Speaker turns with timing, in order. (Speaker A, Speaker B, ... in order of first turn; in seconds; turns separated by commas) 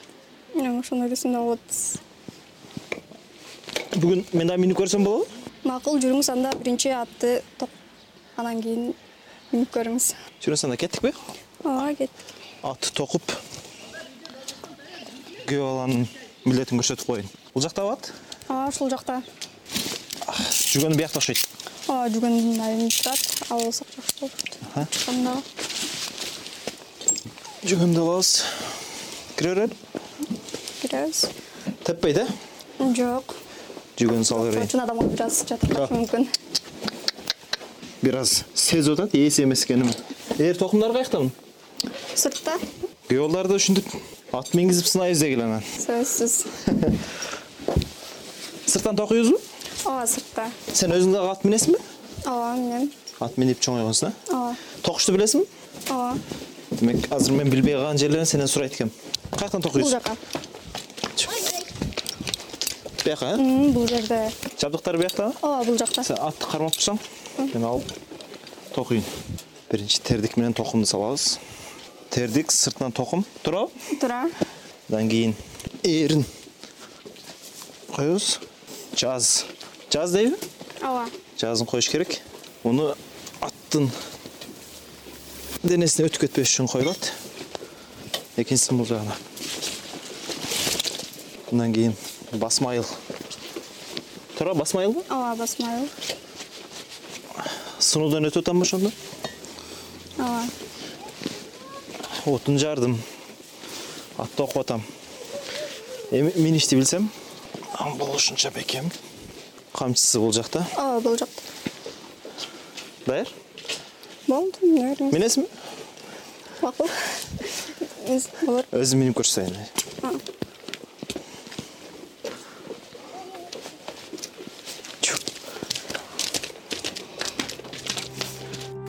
Speaker A: 0.6-2.0, Speaker B: 3.9-5.3, Speaker A: 5.6-7.7, Speaker A: 8.4-9.0, Speaker A: 9.5-10.2, Speaker B: 10.4-11.2, Speaker A: 11.6-12.1, Speaker B: 12.6-13.4, Speaker B: 15.4-18.1, Speaker A: 18.5-19.2, Speaker B: 20.3-21.4, Speaker A: 21.9-25.4, Speaker B: 27.6-28.5, Speaker B: 29.4-29.8, Speaker A: 30.8-31.3, Speaker B: 31.8-32.3, Speaker A: 32.8-33.4, Speaker B: 34.0-34.7, Speaker A: 34.3-36.3, Speaker B: 38.0-41.4, Speaker A: 42.1-42.6, Speaker B: 43.1-45.7, Speaker A: 45.8-46.5, Speaker B: 48.7-49.4, Speaker A: 49.9-50.6, Speaker B: 50.7-51.8, Speaker A: 52.2-52.9, Speaker B: 53.2-54.2, Speaker A: 54.3-54.6, Speaker B: 54.8-55.5, Speaker A: 55.9-56.2, Speaker B: 56.8-60.0, Speaker A: 59.7-60.2, Speaker B: 61.2-61.5, Speaker B: 63.0-63.5, Speaker A: 63.4-64.4, Speaker B: 64.6-65.4, Speaker A: 65.4-66.1, Speaker B: 66.0-67.9, Speaker B: 68.7-69.1, Speaker B: 69.7-71.4, Speaker B: 72.1-73.7, Speaker A: 73.9-74.3, Speaker B: 74.9-76.3, Speaker B: 77.9-78.4, Speaker B: 78.9-80.4, Speaker A: 80.8-81.1, Speaker B: 81.4-83.9, Speaker B: 85.6-87.2, Speaker B: 88.4-89.2, Speaker B: 91.5-92.9, Speaker B: 94.3-95.1, Speaker A: 95.1-95.9, Speaker B: 97.8-99.0, Speaker A: 100.2-100.5, Speaker B: 102.2-103.0, Speaker B: 104.2-104.8, Speaker B: 106.1-107.1, Speaker B: 107.7-108.9, Speaker B: 109.7-110.7, Speaker A: 110.8-111.5, Speaker B: 113.1-113.3, Speaker A: 114.3-115.2, Speaker B: 115.1-115.5, Speaker A: 116.6-116.9, Speaker A: 118.0-118.7, Speaker B: 118.7-119.7